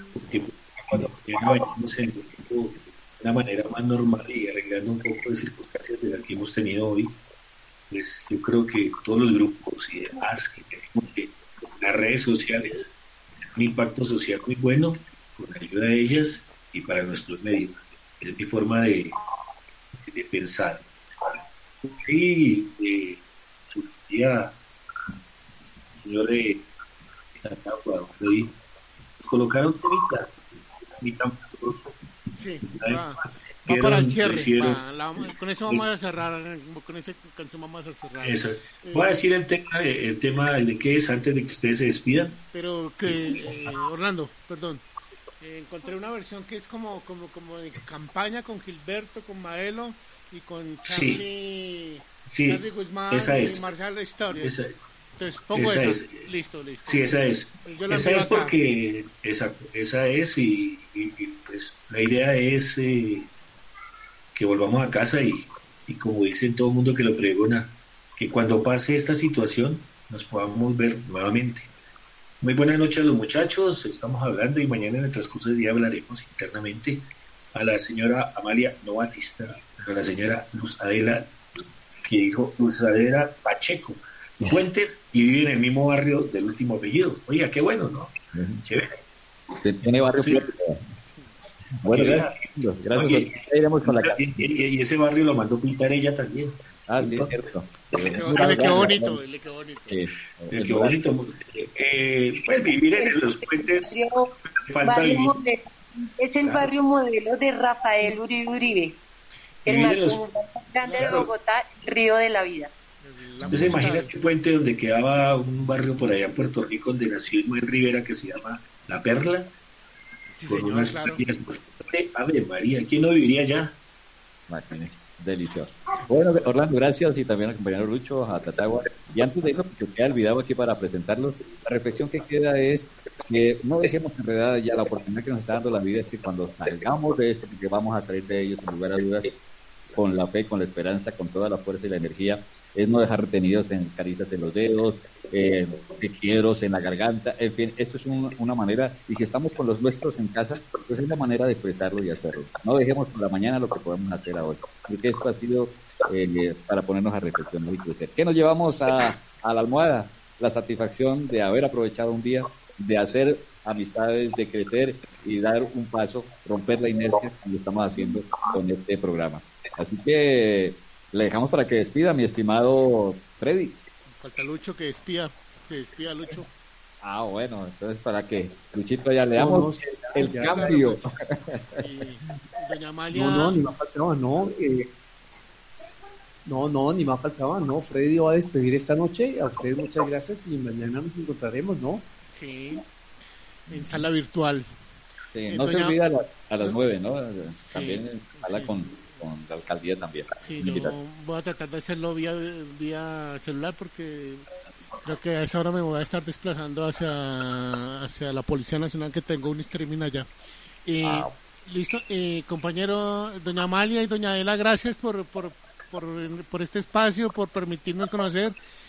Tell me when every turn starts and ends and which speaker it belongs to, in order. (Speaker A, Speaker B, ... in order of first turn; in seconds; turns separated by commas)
Speaker A: 0.3-7.2, Speaker A: 7.9-12.9, Speaker A: 13.5-19.2, Speaker A: 20.0-24.5, Speaker A: 26.0-26.6, Speaker A: 27.4-28.5, Speaker A: 29.2-30.3, Speaker A: 31.0-31.9, Speaker B: 32.4-39.2, Speaker A: 33.6-35.8, Speaker A: 38.2-42.4, Speaker B: 42.5-44.8, Speaker A: 43.1-43.5, Speaker B: 45.4-54.6, Speaker A: 50.8-51.2, Speaker A: 52.3-53.7, Speaker A: 54.3-54.7, Speaker B: 55.2-58.5, Speaker A: 55.5-56.2, Speaker A: 56.8-63.3, Speaker A: 64.3-71.7, Speaker A: 72.4-81.3, Speaker A: 82.0-89.0, Speaker C: 88.3-88.6, Speaker C: 89.6-90.8, Speaker A: 89.9-90.5, Speaker C: 91.8-94.2, Speaker A: 91.9-93.3, Speaker A: 93.8-97.4, Speaker C: 96.9-99.2, Speaker A: 97.9-98.9, Speaker B: 98.2-100.0, Speaker C: 99.9-101.0, Speaker A: 100.5-103.9, Speaker D: 103.0-109.0, Speaker A: 104.5-105.4, Speaker A: 106.4-106.7, Speaker A: 109.6-110.2, Speaker D: 109.6-112.7, Speaker B: 110.8-111.3, Speaker A: 111.0-111.3, Speaker B: 113.0-114.2, Speaker A: 113.4-119.5, Speaker C: 113.5-113.7, Speaker B: 120.3-121.2, Speaker A: 120.5-123.8, Speaker C: 124.5-139.3, Speaker C: 139.9-173.8, Speaker B: 174.2-176.5, Speaker C: 177.0-181.8, Speaker E: 179.3-180.8, Speaker B: 180.2-181.1, Speaker B: 181.8-183.6, Speaker E: 183.1-184.9, Speaker E: 186.4-192.0, Speaker B: 192.3-192.8, Speaker B: 193.7-194.7, Speaker C: 193.7-194.0, Speaker C: 195.3-200.9, Speaker B: 195.5-196.0, Speaker B: 197.7-199.2, Speaker B: 200.4-204.5, Speaker B: 205.0-210.3, Speaker B: 210.8-218.6, Speaker C: 211.0-211.3